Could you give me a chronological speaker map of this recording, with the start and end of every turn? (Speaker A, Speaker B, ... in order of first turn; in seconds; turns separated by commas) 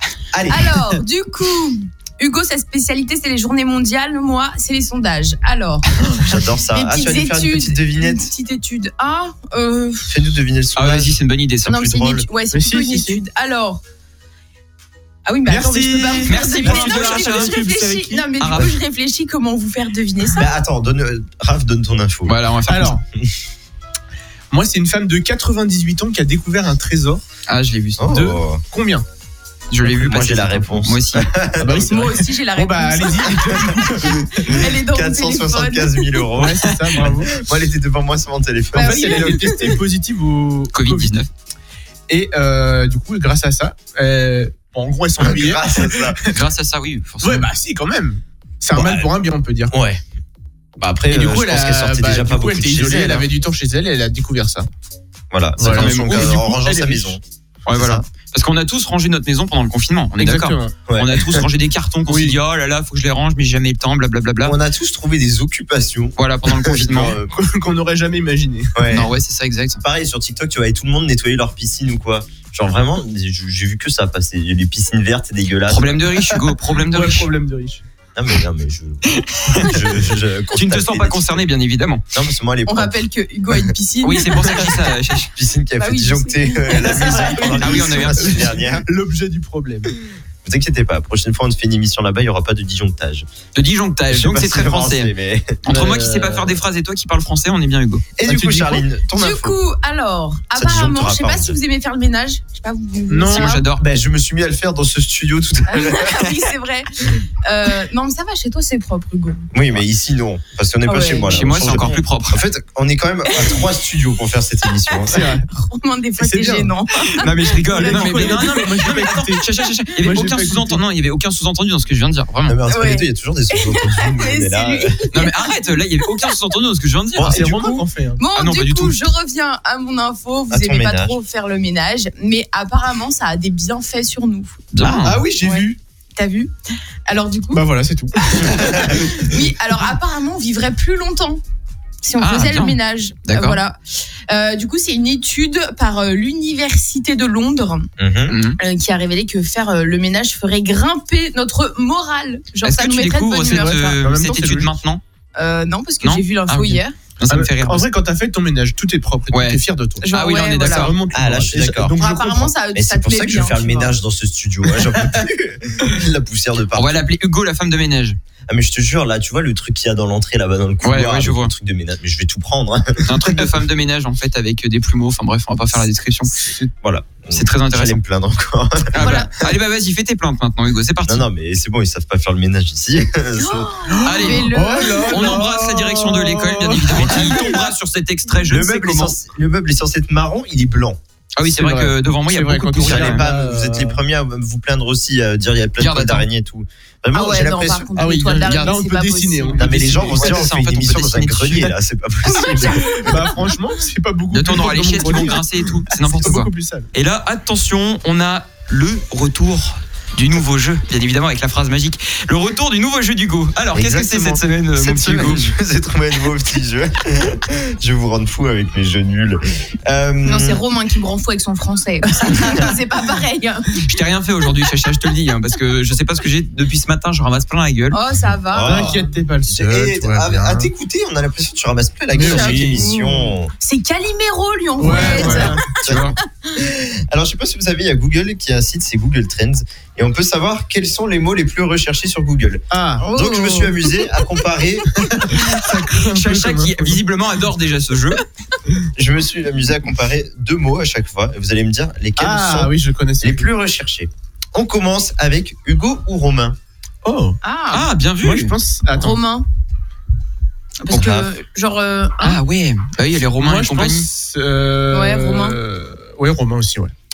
Speaker A: 0.3-1.0, Speaker B: 0.5-10.2, Speaker A: 6.2-8.3, Speaker A: 10.1-12.3, Speaker C: 10.8-11.8, Speaker B: 11.7-13.8, Speaker D: 12.5-13.2, Speaker B: 15.2-20.5, Speaker D: 15.4-18.3, Speaker C: 16.2-17.6, Speaker C: 18.4-18.7, Speaker A: 20.3-22.4, Speaker C: 22.2-23.0, Speaker D: 22.7-23.0, Speaker D: 24.5-27.2, Speaker C: 27.5-28.1, Speaker A: 28.0-28.6, Speaker D: 28.1-29.0, Speaker C: 29.7-31.3, Speaker A: 29.8-32.2, Speaker D: 31.6-34.6, Speaker B: 31.7-33.5, Speaker A: 33.6-34.0, Speaker B: 34.2-36.3, Speaker A: 34.6-39.6, Speaker D: 36.4-37.3, Speaker B: 38.7-39.8, Speaker D: 38.7-41.1, Speaker C: 40.7-41.3, Speaker D: 42.1-46.4, Speaker A: 45.2-46.2, Speaker C: 46.3-47.5, Speaker D: 47.2-49.7, Speaker A: 48.7-49.1, Speaker A: 49.7-50.0, Speaker A: 50.8-53.3, Speaker D: 51.1-54.7, Speaker A: 55.3-58.0, Speaker D: 55.6-57.2, Speaker C: 55.6-56.5, Speaker C: 57.6-64.6, Speaker D: 60.2-60.7, Speaker A: 60.9-61.5, Speaker D: 62.1-62.4, Speaker A: 64.4-67.3, Speaker C: 66.2-67.2, Speaker D: 67.3-68.8, Speaker A: 68.7-69.1, Speaker C: 68.9-69.8, Speaker A: 69.8-76.4, Speaker C: 75.7-77.3, Speaker D: 76.8-77.8, Speaker A: 78.1-81.4, Speaker C: 79.1-79.9, Speaker C: 80.5-82.0, Speaker A: 82.1-83.0, Speaker B: 82.7-84.8, Speaker C: 84.0-85.3, Speaker A: 85.2-88.9, Speaker B: 85.8-87.5, Speaker D: 86.7-90.0, Speaker C: 87.6-88.5, Speaker A: 90.4-93.3, Speaker C: 93.5-95.1, Speaker A: 94.1-95.6, Speaker C: 95.6-98.1, Speaker D: 95.7-96.6, Speaker A: 98.2-99.6, Speaker D: 98.2-98.8, Speaker B: 99.1-103.6, Speaker A: 100.5-101.6, Speaker D: 103.1-103.6, Speaker C: 103.3-103.8, Speaker A: 103.8-106.5, Speaker B: 105.7-109.5, Speaker A: 109.5-115.3, Speaker B: 110.8-111.5, Speaker C: 111.3-112.4, Speaker B: 113.3-113.6, Speaker D: 115.1-115.5, Speaker B: 115.5-118.7, Speaker D: 116.2-116.7, Speaker C: 117.1-122.6, Speaker D: 117.7-119.5, Speaker D: 120.0-120.8, Speaker A: 122.5-125.0, Speaker B: 122.7-126.3, Speaker C: 125.1-127.8, Speaker A: 127.2-127.8, Speaker D: 127.2-128.2, Speaker B: 128.2-134.6, Speaker C: 128.3-129.1, Speaker A: 130.5-131.2, Speaker C: 134.7-135.2, Speaker A: 134.8-135.1, Speaker D: 135.0-135.8, Speaker B: 135.4-136.5, Speaker B: 137.1-137.7, Speaker D: 137.5-139.3, Speaker B: 138.2-141.4, Speaker B: 142.0-147.9, Speaker C: 142.2-143.6, Speaker A: 148.0-148.3, Speaker C: 148.3-148.6, Speaker B: 148.6-154.0, Speaker C: 152.6-155.0, Speaker D: 153.4-154.7, Speaker B: 155.3-156.9, Speaker C: 156.0-157.9, Speaker D: 157.3-160.0, Speaker C: 159.3-160.9, Speaker B: 160.0-160.9, Speaker D: 160.6-162.4, Speaker A: 161.1-167.1, Speaker B: 161.9-163.9, Speaker C: 166.7-168.2, Speaker A: 168.5-173.6, Speaker C: 170.8-171.5, Speaker C: 173.0-176.5, Speaker D: 176.4-176.7, Speaker A: 176.8-179.2, Speaker C: 177.3-178.0, Speaker C: 178.9-181.2, Speaker B: 178.9-179.3, Speaker A: 181.1-183.7, Speaker B: 183.4-185.4, Speaker D: 183.9-187.6, Speaker C: 184.0-189.2, Speaker A: 186.9-187.7, Speaker A: 188.5-191.0, Speaker C: 191.3-193.2, Speaker D: 191.4-194.0, Speaker A: 192.8-197.9, Speaker C: 195.8-196.2, Speaker B: 197.1-199.7, Speaker D: 197.9-200.5, Speaker C: 198.4-198.8, Speaker A: 199.6-203.1, Speaker C: 199.9-201.7, Speaker B: 202.3-203.5, Speaker D: 202.5-206.9, Speaker C: 204.3-215.5, Speaker A: 213.7-220.6, Speaker B: 220.2-223.9, Speaker C: 223.9-228.0, Speaker B: 227.9-229.1, Speaker A: 228.5-233.5, Speaker D: 228.6-230.7, Speaker D: 232.1-232.8, Speaker B: 232.2-235.8, Speaker D: 234.8-235.6, Speaker A: 234.8-245.3, Speaker C: 234.9-236.2, Speaker D: 242.7-243.1, Speaker B: 243.0-244.4, Speaker D: 245.0-247.0, Speaker C: 245.5-248.2, Speaker A: 248.9-256.6, Speaker D: 252.2-253.5, Speaker D: 257.0-257.4, Speaker B: 257.4-257.9, Speaker C: 257.7-258.5, Speaker D: 258.2-259.2, Speaker B: 258.9-259.4, Speaker B: 260.8-262.4, Speaker A: 260.9-261.3, Speaker C: 262.2-264.1, Speaker D: 263.4-266.9, Speaker B: 264.9-265.6